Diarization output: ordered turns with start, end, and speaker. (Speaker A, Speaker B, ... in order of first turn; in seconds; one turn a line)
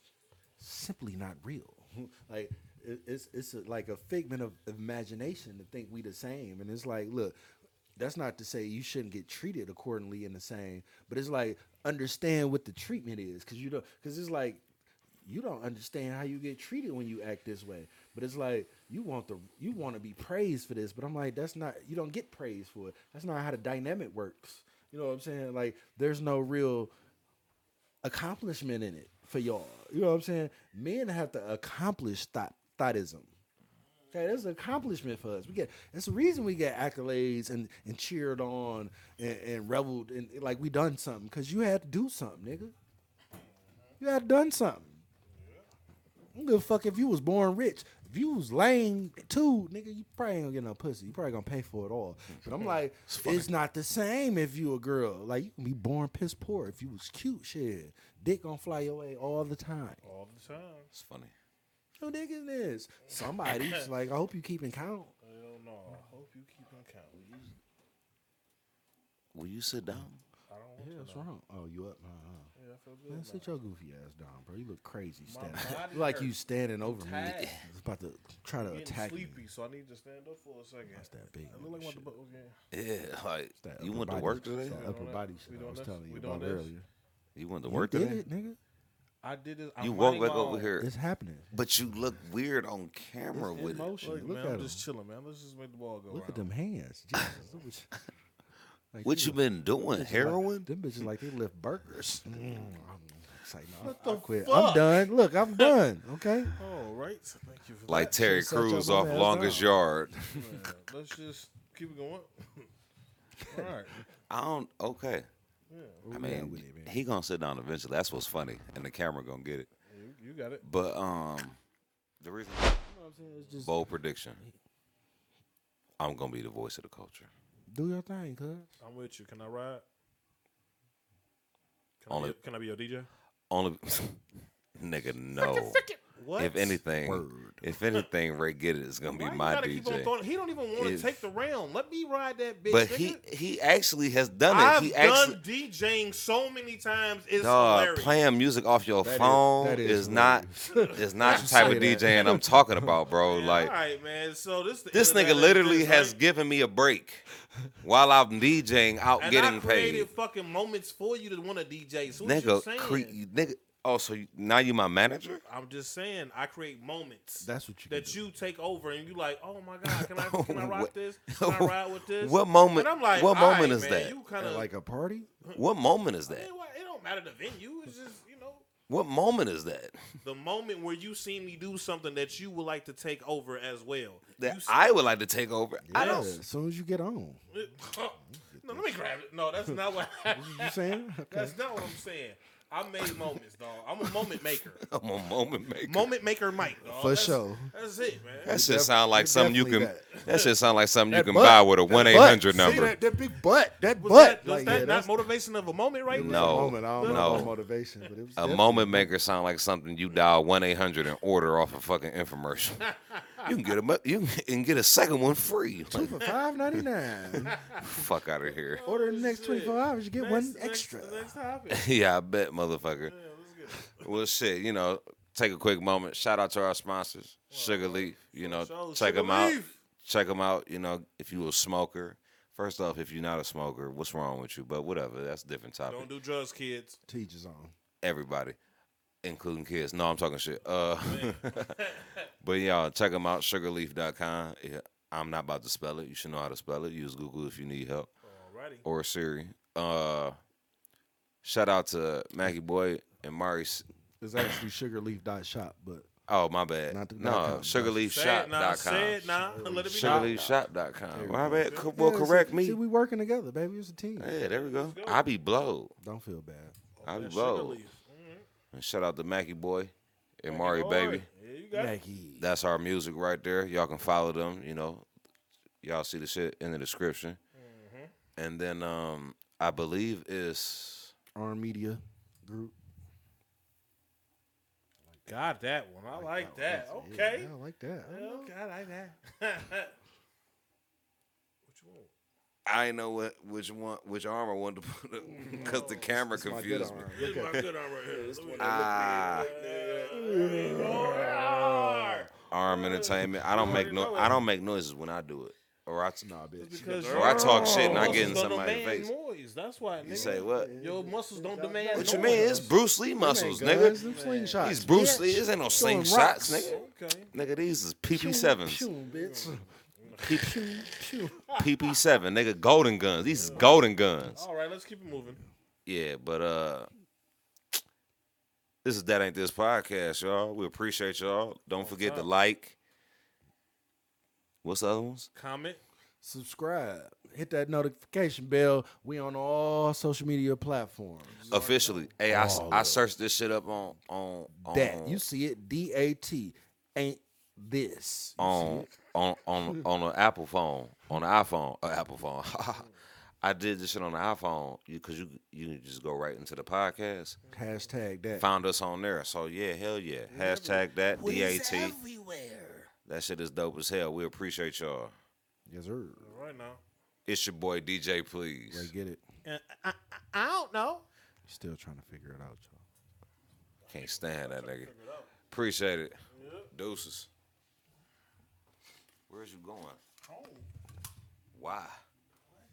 Speaker A: 0.6-7.3
Speaker A: 8.0-14.6
Speaker A: 15.2-26.9
Speaker A: 28.0-33.3
Speaker A: 34.1-42.7
Speaker A: 44.0-45.0
Speaker B: 45.4-45.6
Speaker A: 46.3-60.0
Speaker C: 53.1-53.5
Speaker B: 60.0-60.9
Speaker C: 60.9-61.3
Speaker A: 62.0-65.1
Speaker B: 63.1-63.9
Speaker B: 65.2-67.3
Speaker C: 69.3-70.2
Speaker B: 70.5-71.3
Speaker A: 70.8-72.5
Speaker B: 72.5-73.5
Speaker A: 73.1-79.4
Speaker B: 75.3-77.6
Speaker B: 78.6-82.6
Speaker A: 80.9-82.1
Speaker C: 82.7-84.8
Speaker A: 83.6-86.8
Speaker B: 84.7-86.7
Speaker C: 87.3-88.2
Speaker A: 87.6-88.6
Speaker B: 89.2-90.7
Speaker C: 89.8-90.9
Speaker A: 90.8-91.5
Speaker C: 91.5-93.9
Speaker A: 93.3-94.8
Speaker B: 94.0-96.5
Speaker A: 96.1-97.9
Speaker A: 98.9-99.4
Speaker C: 99.0-100.7
Speaker A: 99.9-106.5
Speaker B: 102.3-102.6
Speaker B: 103.8-105.7
Speaker B: 106.5-108.2
Speaker C: 107.9-110.1
Speaker A: 108.0-110.6
Speaker B: 110.3-112.7
Speaker A: 113.5-113.7
Speaker B: 113.5-114.0
Speaker C: 114.3-115.3
Speaker B: 115.7-116.0
Speaker A: 116.0-116.9
Speaker C: 116.1-119.7
Speaker B: 119.9-120.6
Speaker C: 120.6-121.6
Speaker C: 122.2-122.8
Speaker A: 122.8-123.7
Speaker C: 123.6-124.4
Speaker C: 126.0-127.3
Speaker A: 127.7-128.7
Speaker B: 128.8-129.8
Speaker B: 132.0-133.1
Speaker C: 132.1-132.3
Speaker C: 133.5-134.2
Speaker C: 134.8-135.8
Speaker B: 135.4-136.8
Speaker C: 136.4-140.1
Speaker A: 137.0-137.6
Speaker B: 139.1-143.2
Speaker C: 140.8-141.2
Speaker C: 142.7-145.4
Speaker B: 144.5-148.1
Speaker C: 147.4-153.7
Speaker A: 149.0-152.9
Speaker B: 150.7-152.4
Speaker B: 153.1-156.2
Speaker C: 154.9-157.3
Speaker C: 157.8-160.1
Speaker B: 159.2-163.2
Speaker C: 162.2-165.4
Speaker B: 165.4-174.7
Speaker A: 167.4-168.2
Speaker C: 169.9-174.1
Speaker A: 174.4-175.3
Speaker C: 175.5-176.5
Speaker B: 176.2-178.6
Speaker C: 178.9-180.0
Speaker B: 180.2-184.9
Speaker C: 184.4-186.3
Speaker A: 185.8-187.4
Speaker B: 185.9-186.4
Speaker B: 187.5-194.8
Speaker A: 188.2-188.9
Speaker A: 189.7-191.6
Speaker C: 194.8-196.1
Speaker B: 195.8-198.5
Speaker A: 196.9-197.7
Speaker A: 198.4-200.2
Speaker C: 198.4-202.9
Speaker B: 200.2-200.5
Speaker A: 201.1-205.2
Speaker B: 202.0-203.0
Speaker B: 204.0-207.5
Speaker A: 206.1-209.1
Speaker C: 206.1-207.5
Speaker C: 208.4-212.9
Speaker B: 212.8-213.4
Speaker C: 213.4-216.2
Speaker A: 215.9-217.6
Speaker B: 217.5-217.8
Speaker C: 217.7-218.8
Speaker B: 218.6-221.8
Speaker A: 218.8-221.3
Speaker C: 221.7-223.1
Speaker B: 223.1-224.0
Speaker C: 223.9-236.1
Speaker B: 227.5-229.7
Speaker B: 235.9-237.0
Speaker A: 237.1-237.7
Speaker C: 238.0-238.6
Speaker C: 239.2-241.7
Speaker B: 241.0-242.3
Speaker C: 242.4-248.1
Speaker B: 248.2-248.8
Speaker C: 248.8-250.4
Speaker C: 251.4-254.6
Speaker A: 254.2-256.1
Speaker C: 256.3-259.4
Speaker A: 256.9-258.0
Speaker B: 258.0-260.5
Speaker A: 259.5-260.5
Speaker C: 259.9-262.8
Speaker A: 261.1-264.3
Speaker B: 261.6-261.9
Speaker C: 264.2-265.9
Speaker B: 264.5-265.2
Speaker A: 266.0-266.8
Speaker B: 266.9-268.4
Speaker C: 267.0-267.8
Speaker C: 268.7-271.2
Speaker B: 270.5-271.9
Speaker A: 271.7-272.5
Speaker C: 272.4-275.0
Speaker C: 275.8-277.4
Speaker B: 277.5-278.1
Speaker C: 278.4-281.1
Speaker A: 281.3-282.7
Speaker B: 285.2-287.5
Speaker A: 286.1-288.5
Speaker B: 288.1-289.9
Speaker B: 291.7-292.1
Speaker C: 292.6-297.7
Speaker B: 295.4-296.1
Speaker A: 295.4-302.3
Speaker B: 297.1-304.4
Speaker C: 298.6-299.5
Speaker C: 302.5-306.3
Speaker A: 303.6-303.9
Speaker A: 306.2-308.4
Speaker B: 306.6-312.7
Speaker C: 307.1-309.1
Speaker A: 310.0-316.8
Speaker C: 310.0-310.7
Speaker C: 311.9-314.0
Speaker B: 313.9-315.1
Speaker C: 314.6-316.8
Speaker B: 316.6-317.3
Speaker C: 317.3-318.9
Speaker A: 318.1-319.6
Speaker B: 319.1-320.5
Speaker C: 320.2-320.8
Speaker A: 320.2-321.4
Speaker C: 321.5-324.4
Speaker B: 323.3-323.8
Speaker A: 323.5-323.8
Speaker B: 324.3-325.4
Speaker C: 325.9-326.9
Speaker C: 328.8-332.8
Speaker B: 331.8-332.3
Speaker C: 334.6-335.3
Speaker B: 335.3-335.8
Speaker A: 336.2-341.4
Speaker B: 341.3-342.1
Speaker C: 341.5-345.2
Speaker A: 342.3-343.0
Speaker A: 344.6-348.9
Speaker C: 348.4-352.9
Speaker C: 353.4-357.4
Speaker A: 357.5-358.5
Speaker C: 358.4-362.0
Speaker B: 360.3-360.8
Speaker A: 361.2-362.9
Speaker C: 363.1-365.1
Speaker A: 365.7-366.4
Speaker B: 366.2-366.8
Speaker C: 367.2-368.9
Speaker A: 368.7-369.2
Speaker B: 369.4-371.0
Speaker A: 371.4-372.8
Speaker B: 373.9-375.3
Speaker C: 373.9-374.9
Speaker C: 375.5-376.2
Speaker B: 376.3-376.7
Speaker C: 376.7-377.3
Speaker C: 379.3-380.0
Speaker B: 380.2-380.6
Speaker C: 381.5-382.0